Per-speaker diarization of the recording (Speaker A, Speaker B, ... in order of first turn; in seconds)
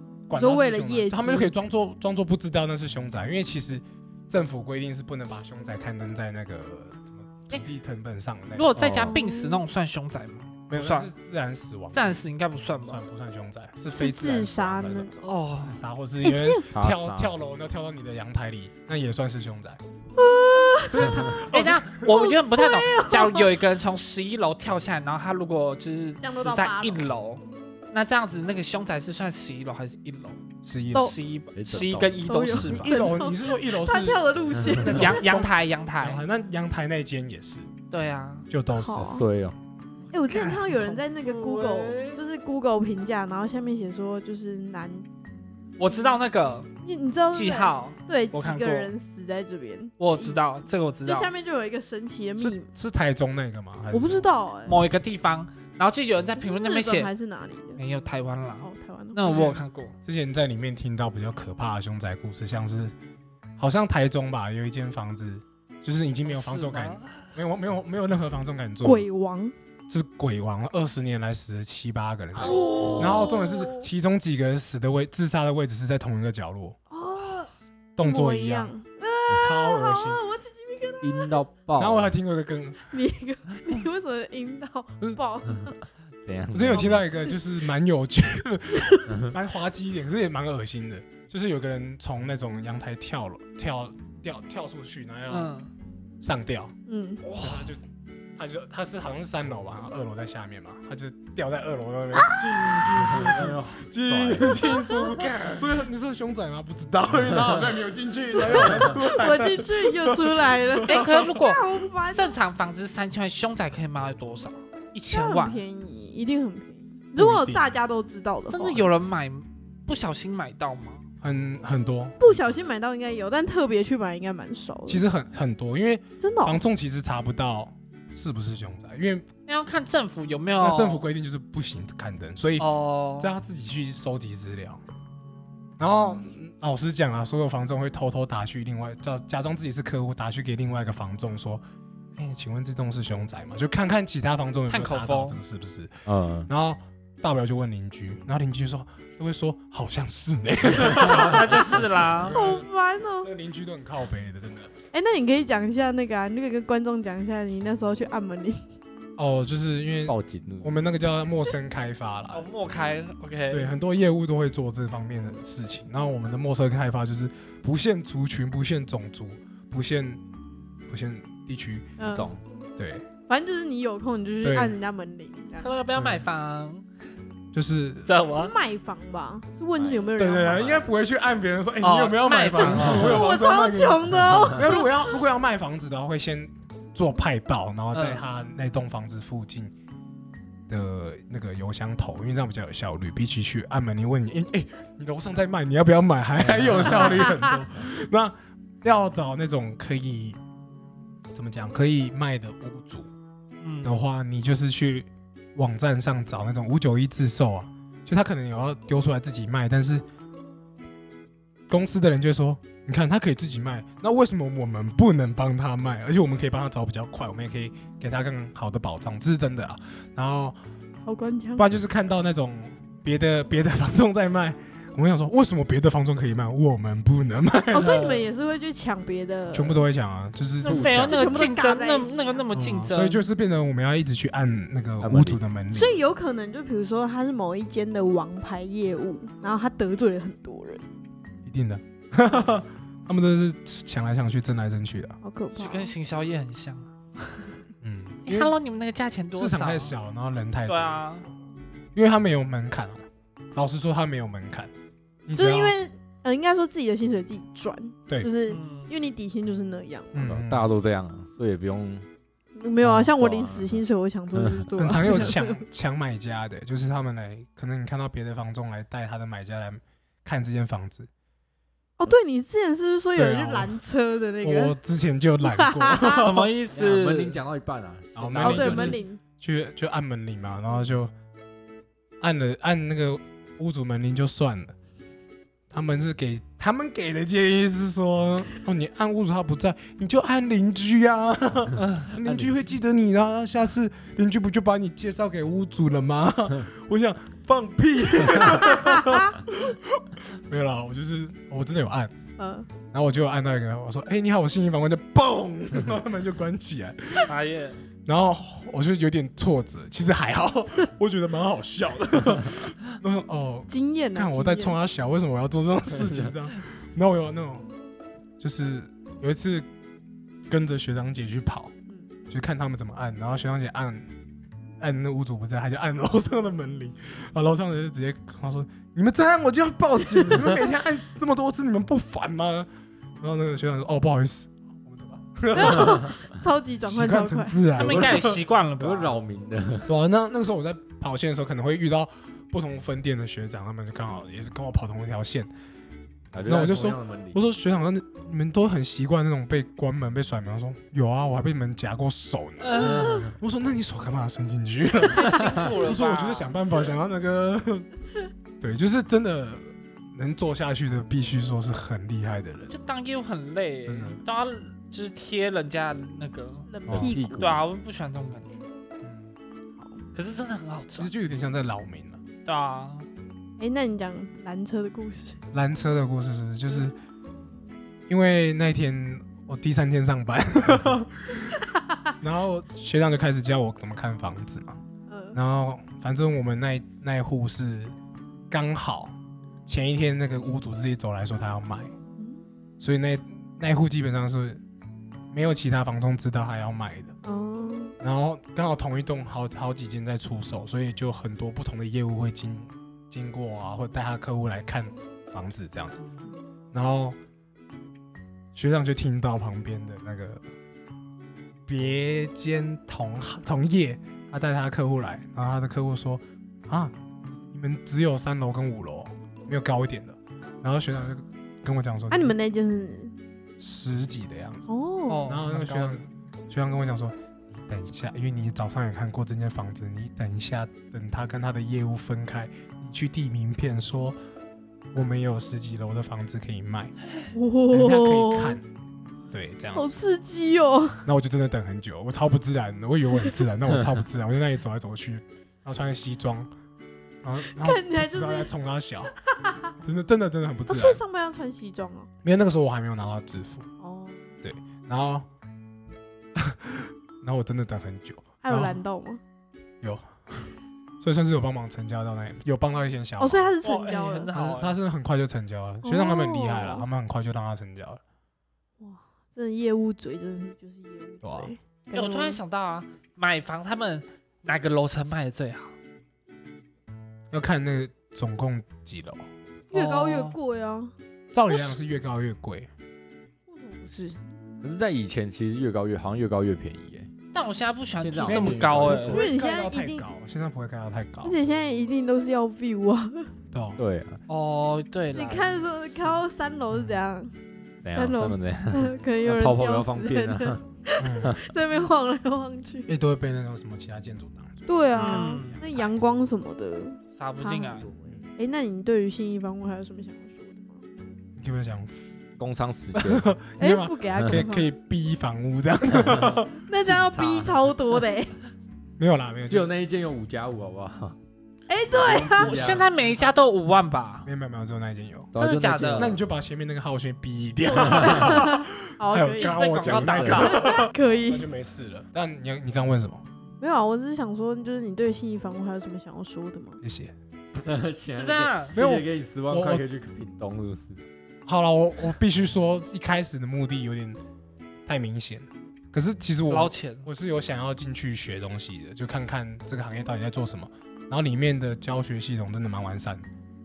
Speaker A: 0.3-8.8, 10.7-12.2, 12.9-19.8, 20.9-22.1, 30.6-31.1, 32.6-37.7, 38.5-39.2, 52.4-54.3, 59.2-63.0, 63.6-69.1, 69.9-76.8, 78.0-78.7, 79.3-80.2, 81.8-82.9, 86.5-95.5, 96.2-96.7, 97.4-97.8, 98.4-111.3, 117.2-117.7, 121.2-122.3, 124.9-129.3, 130.6-134.8, 135.8-141.6, 142.2-152.7, 153.2-154.7, 159.2-162.5, 163.5-170.2, 170.9-171.9, 172.8-173.1, 174.4-174.8, 175.9-176.3, 177.5-178.1, 180.2-189.7, 190.7-200.4, 201.3-203.1, 203.8-210.1, 211.7-220.6, 221.6-228.0, 229.5-231.2, 232.5-236.0, 241.4-245.2, 247.8-248.5, 249.3-251.0, 251.9-254.7, 255.3-255.8, 260.1-260.7, 264.8-271.1, 273.2-273.8, 274.4-276.5, 278.1-281.1, 282.2-284.8, 285.7-302.1, 302.9-307.3, 308.1-317.7, 318.4-319.7, 320.5-321.7, 322.3-324.1, 324.8-332.7, 333.2-336.1, 336.9-338.4, 339.9-345.5, 346.4-357.9, 358.6-362.7, 363.9-364.2, 366.9-367.1, 369.0-369.4, 371.0-372.2, 375.5-377.0, 378.1-381.5, 382.2-384.8, 385.3-387.9, 388.5-389.1, 389.7-391.9, 392.8-394.6, 395.3-397.1, 398.0-406.0, 406.7-407.2, 408.6-410.4, 411.7-422.4, 423.6-424.7, 425.2-434.2, 434.9-436.9, 437.7-438.7, 439.3-440.0, 441.1-446.5, 447.2-449.1, 449.8-451.0, 452.2-453.7, 454.4-455.3, 456.4-458.8, 461.0-463.6, 464.3-468.0, 471.2-471.5, 477.3-479.3, 481.3-482.7, 488.2-491.4, 493.5-493.8, 496.7-497.0, 501.0-501.4, 502.9-505.9, 511.4-511.9, 513.0-517.1, 519.0-519.7, 524.2-525.3, 525.9-533.2, 536.8-537.1, 538.8-539.9, 541.5-544.2, 544.9-553.3
Speaker B: 0.3-1.5, 9.1-9.6, 13.9-15.3, 16.2-16.7, 20.2-21.4, 22.0-23.5, 26.2-27.0, 32.2-35.5, 38.7-39.2, 40.1-45.1, 46.8-52.7, 53.9-54.8, 56.4-57.8, 58.6-59.5, 68.8-69.5, 72.4-73.9, 76.9-81.4, 82.9-85.8, 86.7-87.4, 88.7-89.1, 96.9-97.2, 102.2-102.9, 104.4-105.3, 108.3-112.4, 115.1-118.8, 122.2-125.0, 126.2-126.6, 152.3-153.3, 154.9-158.6, 172.0-172.3, 173.3-175.7, 178.3-180.7, 182.8-185.0, 221.1-221.7, 227.7-229.8, 230.6-232.4, 235.7-240.8, 245.2-245.9, 255.3-260.2, 262.6-265.6, 272.0-274.8, 275.4-276.3, 278.4-279.2, 298.7-299.3, 302.4-302.7, 313.7-314.8, 335.5-337.6, 353.0-353.3, 366.7-367.6, 369.8-370.0, 373.6-375.4, 385.1-385.4, 392.2-392.4, 397.2-397.9, 422.1-423.1, 424.7-425.3, 437.3-438.6, 439.7-441.1, 447.5-448.5, 449.3-449.7, 450.7-452.1, 453.8-454.2, 458.4-459.2, 463.2-464.3, 465.8-466.9, 468.8-472.4, 479.7-480.9, 483.5-484.2, 489.1-490.1, 491.2-493.3, 495.1-497.3, 497.9-502.9, 504.7-510.8, 513.6-514.7, 516.7-518.3, 521.7-522.7, 527.7-531.5, 533.6-536.8
Speaker C: 8.5-11.1, 11.9-13.0, 15.2-15.8, 21.4-30.4, 30.9-33.1, 34.9-36.2, 37.9-38.5, 40.2-42.2, 45.8-46.7, 47.3-48.9, 50.0-51.3, 54.7-57.1, 57.8-59.9, 66.3-67.2, 72.4-73.2, 95.3-95.7, 97.2-97.7, 110.9-115.6, 118.5-121.1, 129.5-131.1, 132.6-133.3, 144.7-145.4, 150.8-152.4, 162.3-163.7, 175.6-176.8, 178.1-178.6, 181.8-183.2, 187.9-188.2, 196.8-197.2, 203.6-204.0, 227.8-228.2, 230.6-233.2, 245.6-247.5, 248.3-249.9, 250.7-251.3, 258.5-258.9, 276.1-277.4, 291.8-292.2, 307.3-307.8, 337.8-339.2, 352.6-353.2, 355.0-356.5, 362.7-366.7, 367.3-368.6, 370.1-371.1, 372.5-373.1, 425.1-426.0, 463.6-464.8, 471.9-475.8, 479.7-480.4, 487.3-489.2, 494.3-495.6, 504.9-505.6, 507.1-507.9, 522.4-524.3, 525.4-526.2, 529.4-530.7, 538.1-538.7, 546.5-547.1
Speaker D: 8.8-9.2, 16.7-17.3, 21.0-21.4, 31.6-32.6, 39.0-39.6, 81.0-82.1, 86.2-87.1, 103.0-104.7, 146.1-146.5, 160.1-160.7, 172.1-172.4, 179.8-180.9, 196.5-197.0, 230.7-231.0, 235.0-235.4, 260.2-262.1, 262.9-265.3, 276.7-279.0, 337.9-338.3, 338.8-339.9, 346.3-347.4, 352.8-353.3, 366.9-367.7, 484.6-487.1, 488.0-489.2, 493.8-494.2, 497.8-500.6, 512.4-513.3, 514.2-514.4, 517.1-517.5, 519.5-521.2, 522.0-522.9, 525.3-526.2, 527.8-528.3, 529.9-530.5, 537.6-541.0